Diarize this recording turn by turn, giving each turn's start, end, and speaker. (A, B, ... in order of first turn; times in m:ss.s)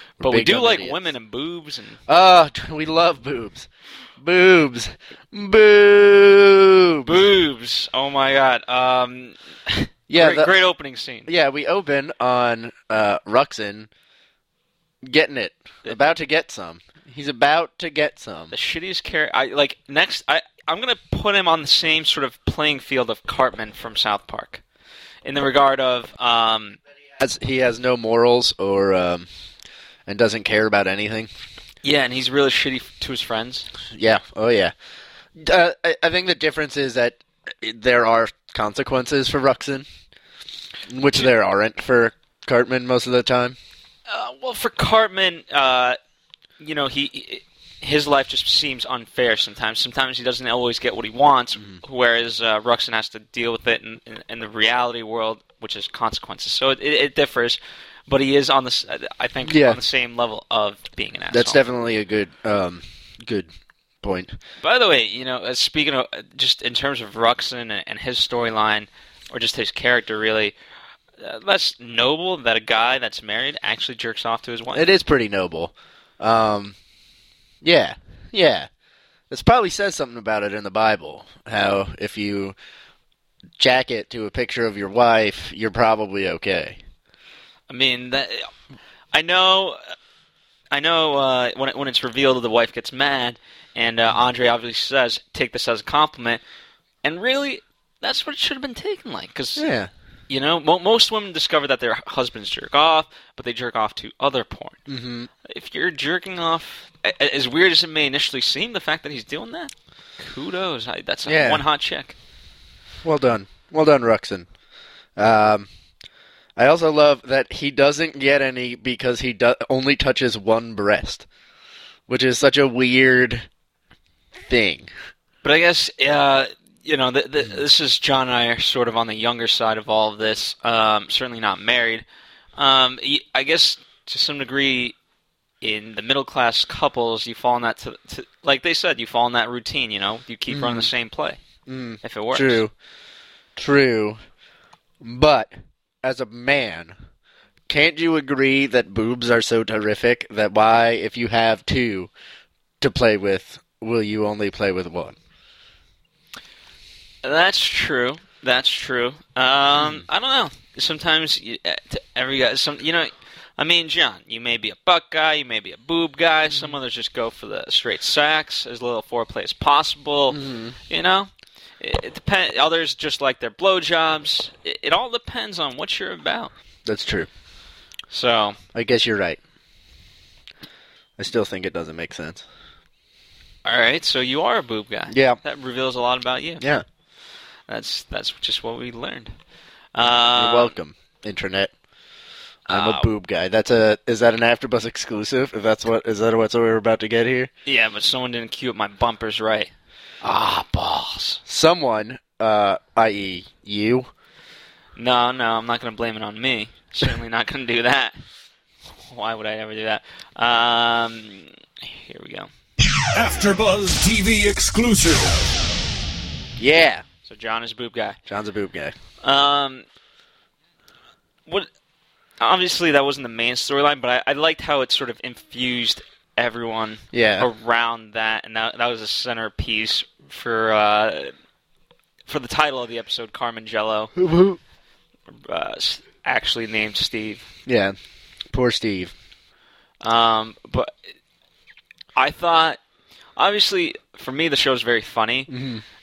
0:00.2-0:01.0 A
0:00.2-0:02.0 B
0:02.1-0:03.7 A
0:04.2-0:07.3 A
0:07.0-0:11.3 B
0:10.1-0:10.6 A
0:11.3-0:13.9 A
0:15.0-0:18.5 A
0:18.5-0:24.6 B
0:25.2-0:26.8 B
0:27.2-0:29.3 A
0:30.1-0:31.3 A
0:31.8-0:33.7 B
0:33.9-0:34.7 A
0:35.4-0:39.9 A
0:40.9-0:43.6 A
0:44.1-0:46.0 B
0:46.6-1:01.6 B
0:59.4-0:59.8 A
1:01.3-1:03.5 A
1:04.0-1:04.4 A
1:04.6-1:10.5 B
1:11.2-1:14.9 B
1:14.7-1:16.8 A
1:17.6-1:18.7 A
1:19.3-1:22.6 A
1:23.6-1:26.8 A
1:27.7-1:28.5 B
1:29.1-1:29.8 B
1:30.7-1:36.4 B
1:37.0-1:39.7 B
1:39.6-1:39.9 A
1:40.3-1:44.8 B
1:44.9-1:45.3 A
1:45.4-1:52.2 B
1:51.3-1:51.6 A
1:53.0-1:54.5 A
1:55.2-1:55.7 A
1:56.6-2:01.3 A
2:02.1-2:03.5 A
2:04.5-2:04.9 A
2:05.4-2:12.0 B
2:12.6-2:15.0 B
2:15.6-2:21.4 B
2:20.5-2:20.9 A
2:21.7-2:22.7 A
2:22.0-2:22.6 B
2:23.6-2:24.2 A
2:25.0-2:25.5 A
2:26.0-2:26.9 A
2:27.7-2:32.1 A
2:32.8-2:35.2 A
2:37.2-2:56.5 B
2:39.8-2:40.0 A
2:46.5-2:46.8 A
2:50.3-2:50.8 A
2:56.9-2:57.3 A
2:58.1-2:58.6 B
2:58.7-2:59.4 A
3:01.2-3:02.4 A
3:03.6-3:06.6 B
3:05.1-3:05.4 A
3:07.7-3:09.3 B
3:10.0-3:10.7 B
3:10.4-3:11.7 A
3:12.7-3:17.5 A
3:12.7-3:13.1 B
3:17.6-3:21.4 B
3:21.5-3:24.1 A
3:25.0-3:28.2 B
3:29.1-3:32.5 B
3:33.1-3:35.4 C
3:36.6-3:37.0 A
3:37.2-3:38.2 B
3:38.3-3:39.0 A
3:39.2-3:39.8 B
3:42.4-3:51.3 B
3:47.1-3:47.5 A
3:52.3-3:54.1 B
3:54.2-3:54.6 A
3:55.4-3:57.5 B
3:57.7-3:58.0 A
3:58.5-3:59.1 A
4:00.0-4:01.0 B
4:02.2-4:02.8 B
4:03.4-4:05.5 B
4:05.5-4:05.8 A